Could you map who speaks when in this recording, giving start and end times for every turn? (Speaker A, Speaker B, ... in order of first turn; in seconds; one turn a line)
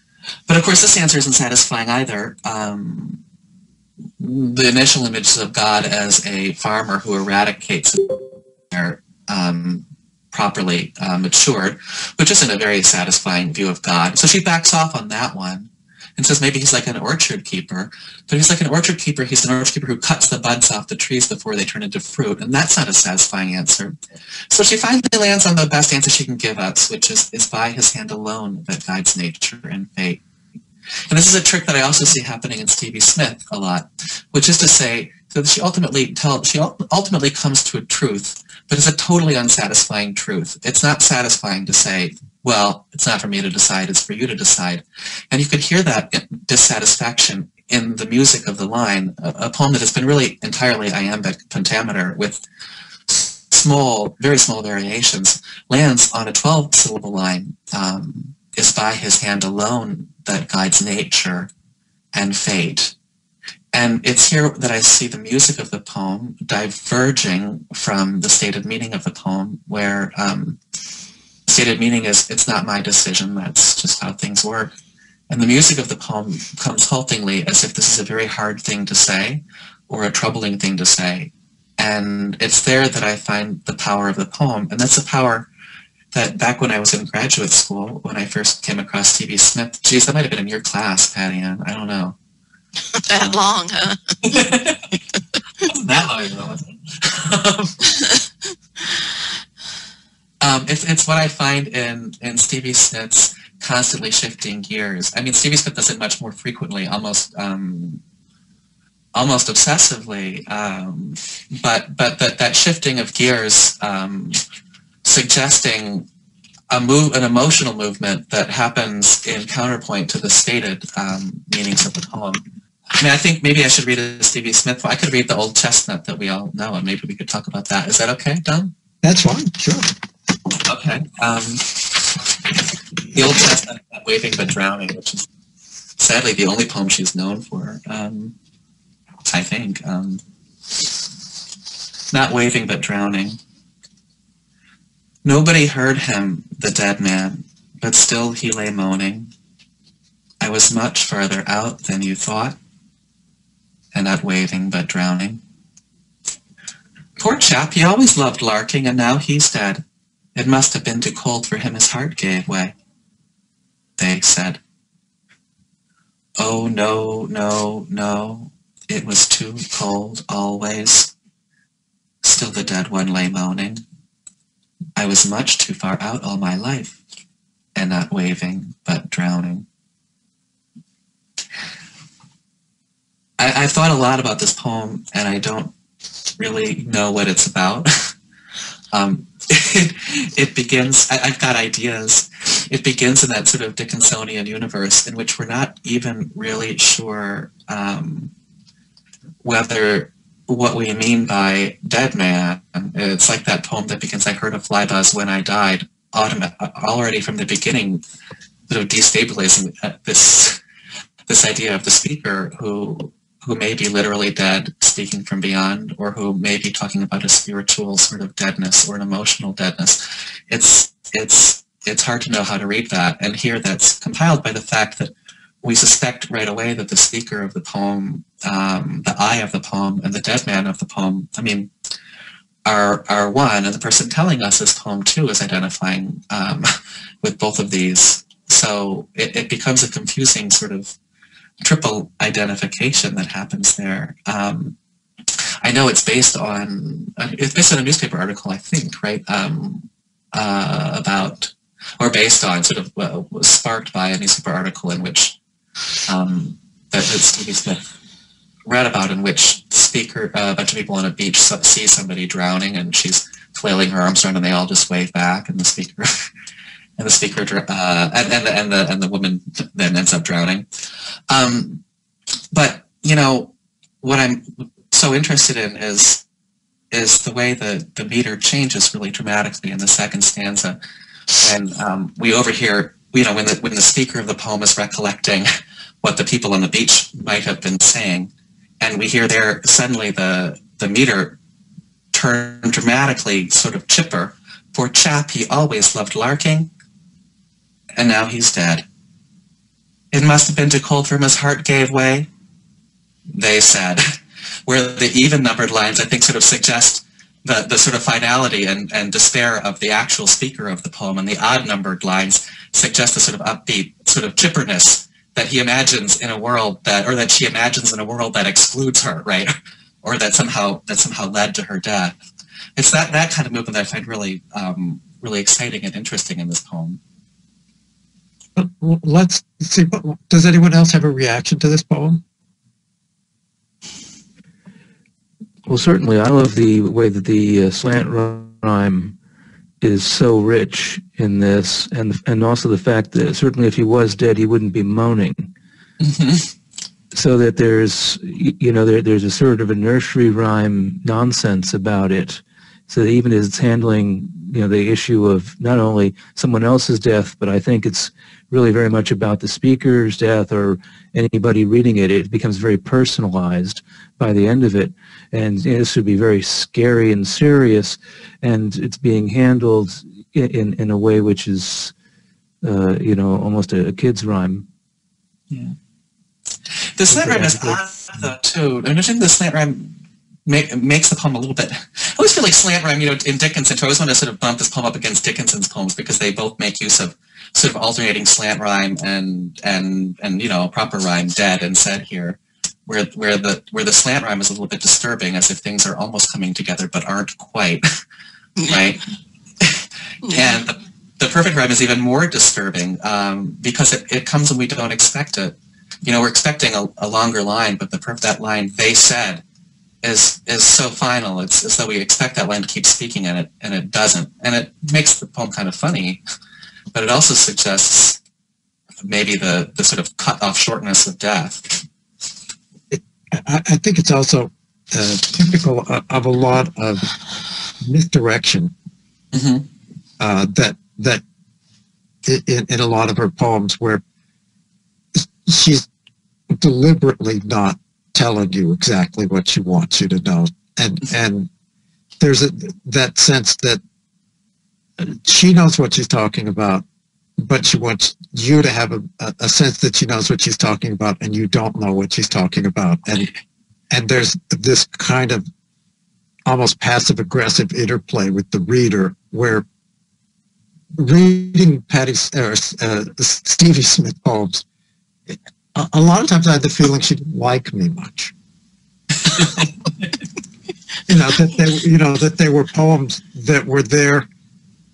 Speaker A: 0.5-3.2
Speaker A: 4.2-23.9
Speaker A: 24.5-30.2
Speaker A: 31.1-52.4
Speaker A: 53.1-61.5
Speaker A: 62.1-62.9
Speaker A: 63.7-70.6
Speaker A: 71.5-74.7
Speaker A: 75.3-85.5
Speaker A: 86.1-92.2
Speaker B: 92.9-94.1
Speaker A: 94.2-95.0
Speaker A: 95.7-97.8
Speaker B: 97.8-98.3
Speaker B: 98.8-99.1
Speaker A: 100.4-108.0
Speaker A: 109.1-114.4
Speaker A: 115.0-116.1
Speaker A: 116.7-122.4
Speaker A: 123.0-128.7
Speaker C: 129.0-129.9
Speaker A: 130.7-132.2
Speaker A: 133.1-135.2
Speaker A: 136.0-138.3
Speaker A: 139.2-140.2
Speaker A: 142.1-143.4
Speaker A: 145.2-149.3
Speaker A: 150.4-152.6
Speaker A: 153.9-155.4
Speaker A: 157.2-159.8
Speaker A: 160.3-162.7
Speaker A: 164.0-164.6
Speaker A: 166.4-171.1
Speaker A: 172.2-173.8
Speaker A: 174.9-177.0
Speaker A: 177.7-179.7
Speaker A: 183.4-185.7
Speaker A: 186.4-188.1
Speaker A: 188.9-198.3
Speaker A: 199.4-208.0
Speaker A: 208.7-210.6
Speaker A: 211.3-231.7
Speaker A: 232.6-240.9
Speaker A: 241.6-244.7
Speaker A: 245.6-255.3
Speaker A: 256.0-257.8
Speaker A: 258.6-266.3
Speaker A: 267.0-270.6
Speaker A: 271.3-271.8
Speaker A: 272.5-276.2
Speaker A: 276.9-280.8
Speaker A: 281.4-285.5
Speaker A: 286.0-291.4
Speaker A: 292.1-296.7
Speaker A: 297.9-298.9
Speaker A: 300.1-302.3
Speaker A: 303.3-304.1
Speaker A: 304.7-322.2
Speaker A: 322.8-327.0
Speaker C: 328.6-332.2
Speaker D: 335.7-339.1
Speaker D: 339.8-345.5
Speaker A: 346.0-346.5
Speaker D: 347.1-371.9
Speaker D: 372.6-374.6
Speaker A: 375.5-375.7
Speaker A: 376.9-397.9
Speaker D: 377.1-377.8
Speaker B: 398.6-399.0
Speaker A: 398.7-399.0
Speaker A: 399.6-409.4
Speaker B: 400.2-400.6
Speaker A: 410.0-416.2
Speaker A: 416.9-418.2
Speaker A: 419.0-421.8
Speaker C: 422.9-427.1
Speaker C: 427.8-428.7
Speaker A: 429.3-429.7
Speaker C: 430.2-431.2
Speaker C: 432.2-434.0
Speaker C: 435.1-435.9
Speaker C: 436.5-441.5
Speaker C: 442.2-443.8
Speaker C: 445.0-446.8
Speaker C: 447.4-453.3
Speaker C: 453.9-455.4
Speaker C: 456.4-459.6
Speaker C: 460.9-464.6
Speaker C: 465.3-468.3
Speaker A: 469.2-469.7
Speaker C: 471.1-474.3